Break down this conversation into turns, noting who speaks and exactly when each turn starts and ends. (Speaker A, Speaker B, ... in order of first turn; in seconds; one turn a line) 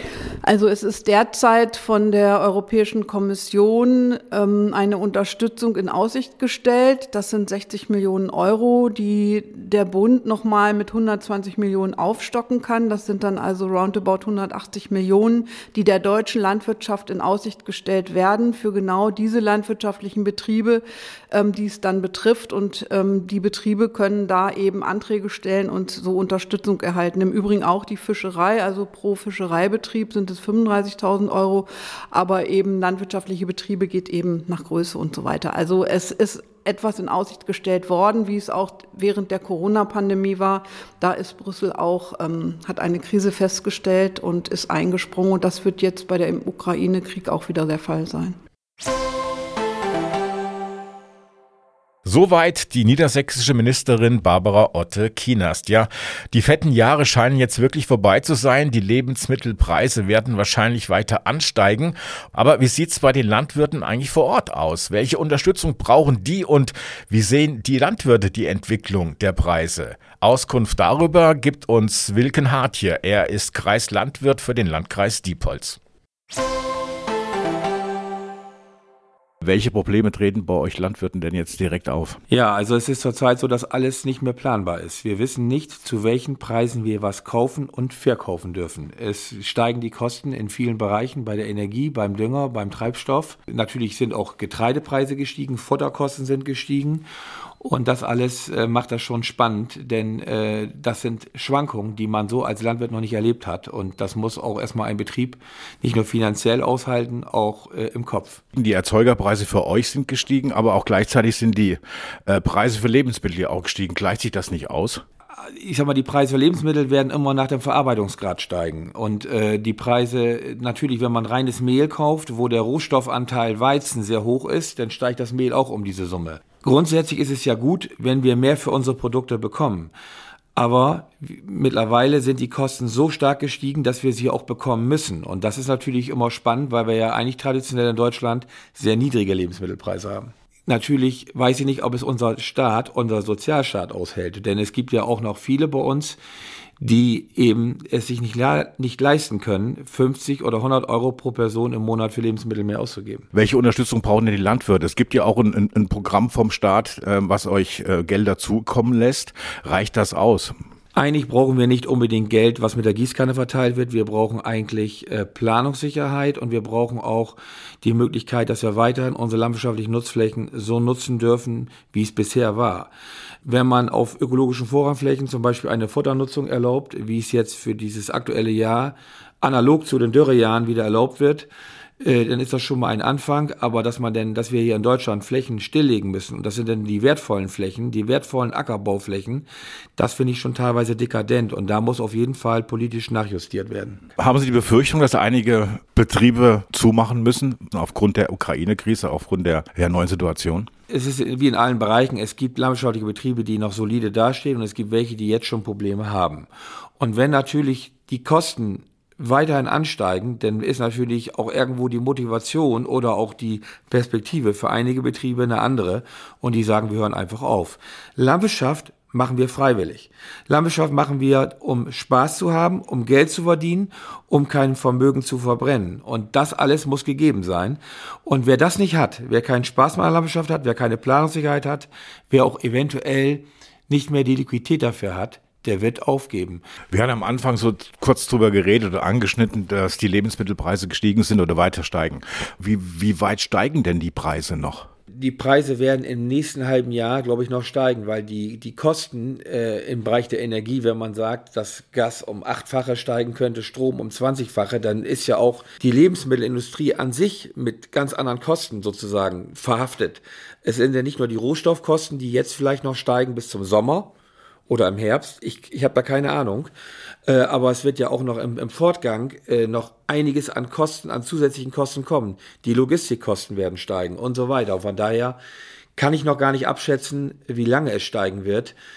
Speaker A: 0.4-48.4
Speaker B: 52.0-75.8
Speaker B: 79.4-82.2
Speaker C: 82.3-97.0
Speaker C: 97.6-108.4
Speaker B: 108.5-115.0
Speaker C: 115.4-129.9
Speaker C: 130.5-146.2
Speaker C: 146.8-153.2
Speaker B: 153.3-160.5
Speaker C: 160.9-172.9
Speaker C: 173.4-181.5
Speaker C: 182.0-189.4
Speaker C: 190.0-194.0
Speaker B: 194.2-200.7
Speaker C: 200.9-206.5
Speaker C: 207.0-236.6
Speaker B: 236.9-244.9
Speaker C: 245.1-264.1
Speaker C: 264.7-266.7
Speaker C: 267.3-275.4
Speaker C: 275.9-278.7